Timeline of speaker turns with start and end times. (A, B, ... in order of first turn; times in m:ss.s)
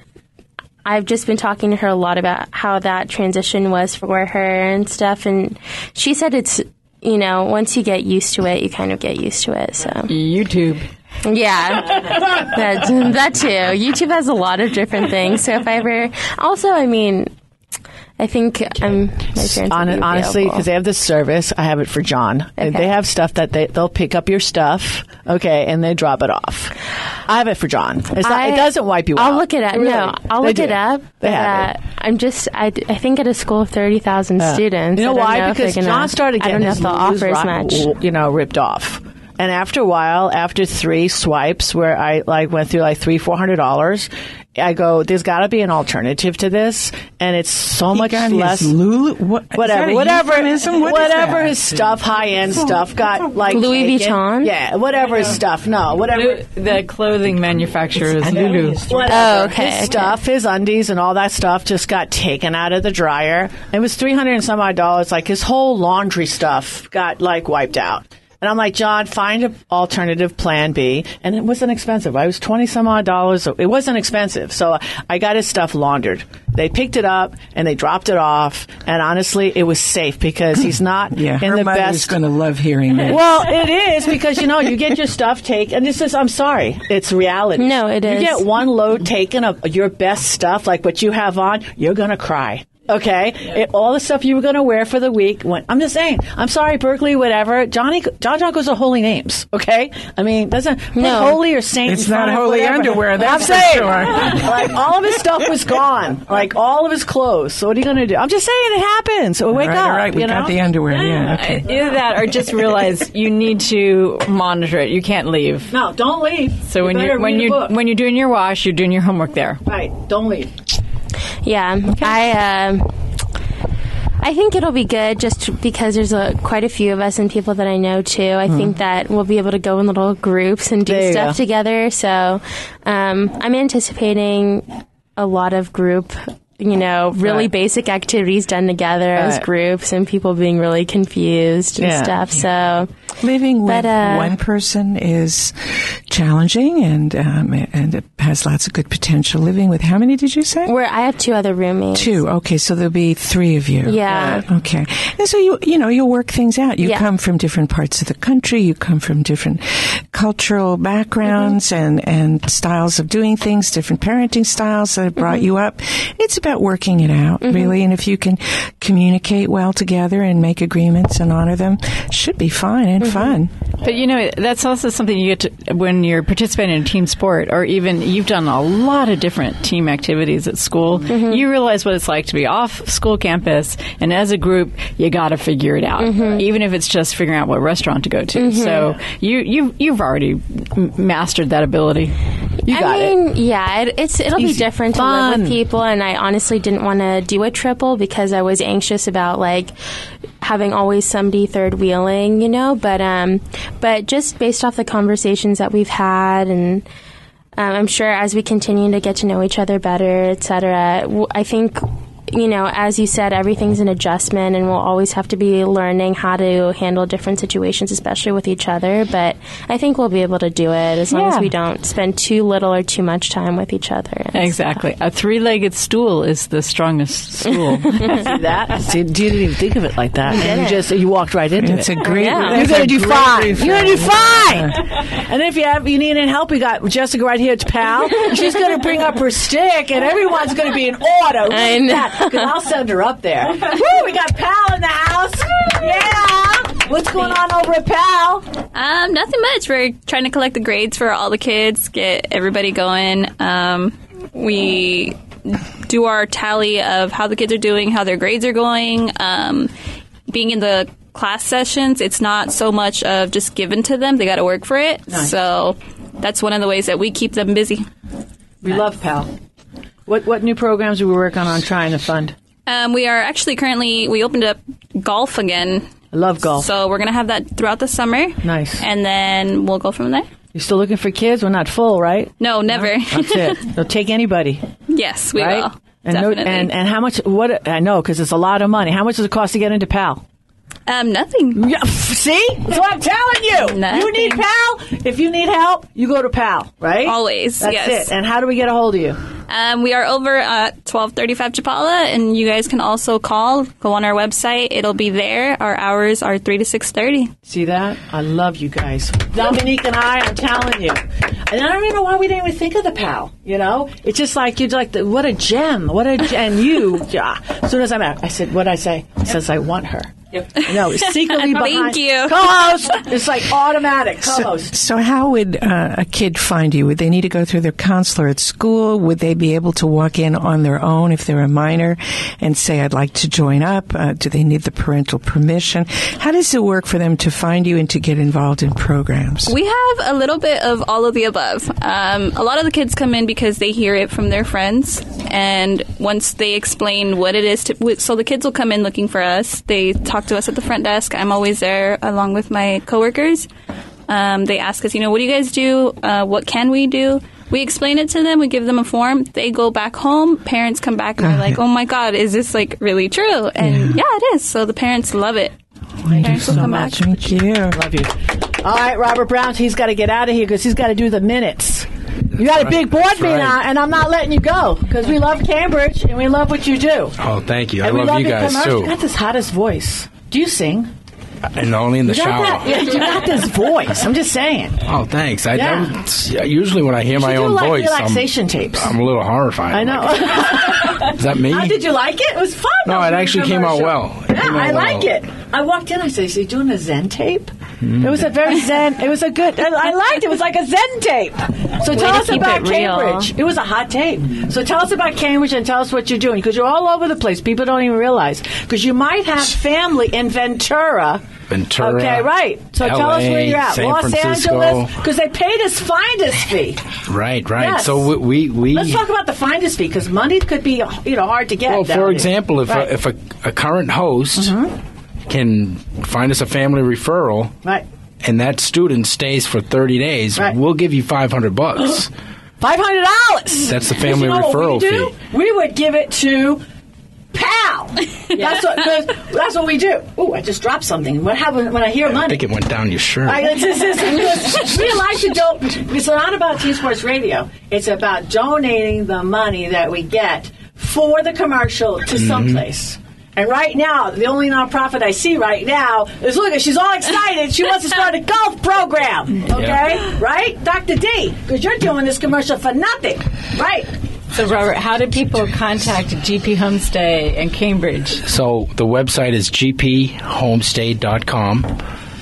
0:00.8-0:10.1 A
0:10.1-0:10.9 B
0:11.2-0:17.3 A
0:18.2-0:20.7 A
0:19.5-0:31.7 C
0:22.6-0:22.9 A
0:28.2-0:37.9 A
0:34.4-0:48.7 C
0:47.9-0:51.6 D
0:49.5-0:56.4 C
0:53.5-0:54.5 A
0:56.1-0:58.9 B
0:58.2-0:59.2 D
0:58.9-1:22.1 C
0:59.0-1:00.2 A
1:21.1-1:23.3 D
1:23.0-1:51.3 C
1:27.6-1:28.5 A
1:40.9-1:41.4 A
1:41.8-1:44.7 D
1:49.5-1:51.6 D
1:51.3-1:55.7 B
1:55.7-1:57.7 C
1:56.6-1:59.6 B
1:59.6-2:00.5 C
2:01.4-2:02.9 A
2:04.2-2:22.9 A
2:08.5-2:08.7 C
2:10.8-2:11.4 C
2:17.2-2:17.5 C
2:19.2-2:19.4 C
2:21.8-2:22.2 C
2:23.2-2:30.7 D
2:23.6-2:24.3 A
2:30.6-2:32.2 A
2:31.9-2:53.5 D
2:33.8-2:34.5 A
2:47.4-2:47.7 A
2:53.0-2:53.4 A
2:53.8-3:12.2 B
3:01.1-3:01.4 A
3:06.0-3:06.4 A
3:08.4-3:09.0 A
3:12.7-3:13.2 C
3:12.7-3:19.7 A
3:14.4-3:15.6 C
3:20.4-3:26.8 A
3:27.6-3:44.8 A
3:41.1-3:41.5 B
3:44.3-3:48.2 B
3:48.1-4:08.4 C
3:50.3-3:50.9 A
3:51.6-3:54.7 D
3:52.0-3:52.8 A
4:01.5-4:02.5 A
4:08.7-4:19.7 E
4:20.3-4:27.9 E
4:25.1-4:25.3 C
4:28.6-4:29.3 C
4:30.0-4:32.3 C
4:32.6-4:40.3 E
4:36.1-4:36.7 C
4:38.4-4:38.8 C
4:40.5-4:44.6 C
4:42.4-4:43.7 E
4:44.9-4:46.7 E
4:45.3-4:50.2 C
4:50.9-4:51.6 E
4:51.5-4:59.2 C
4:53.6-4:54.4 E
4:57.0-4:58.1 E
4:59.5-5:07.3 E
5:07.4-5:24.7 C
5:20.5-5:23.0 E
5:24.2-5:39.6 D
5:39.5-5:53.5 E
5:54.1-6:05.5 E
6:01.2-6:01.6 D
6:03.6-6:04.0 D
6:06.0-6:07.8 D
6:06.1-6:17.1 C
6:06.2-6:07.2 E
6:12.5-6:13.6 F
6:17.2-6:19.0 F
6:17.8-6:20.9 C
6:21.5-6:23.2 F
6:22.0-6:24.8 C
6:24.8-6:31.9 F
6:25.5-6:25.9 C
6:27.1-6:29.0 C
6:29.7-6:51.2 C
6:32.8-6:35.1 F
6:37.8-6:38.3 F
6:41.9-6:43.3 A
6:51.5-6:55.0 F
6:51.8-6:56.8 C
6:57.0-6:59.0 F
6:57.6-6:58.1 C
6:58.7-7:02.9 C
7:01.7-7:04.6 F
7:04.4-7:04.7 C
7:05.3-7:07.5 F
7:08.2-7:12.1 F
7:12.6-7:16.6 C
7:13.6-7:15.1 F
7:17.3-7:22.4 C
7:22.0-7:23.7 F
7:23.2-7:43.9 C
7:32.2-7:32.6 F
7:39.5-7:39.8 F
7:44.3-7:48.2 B
7:48.2-7:51.8 F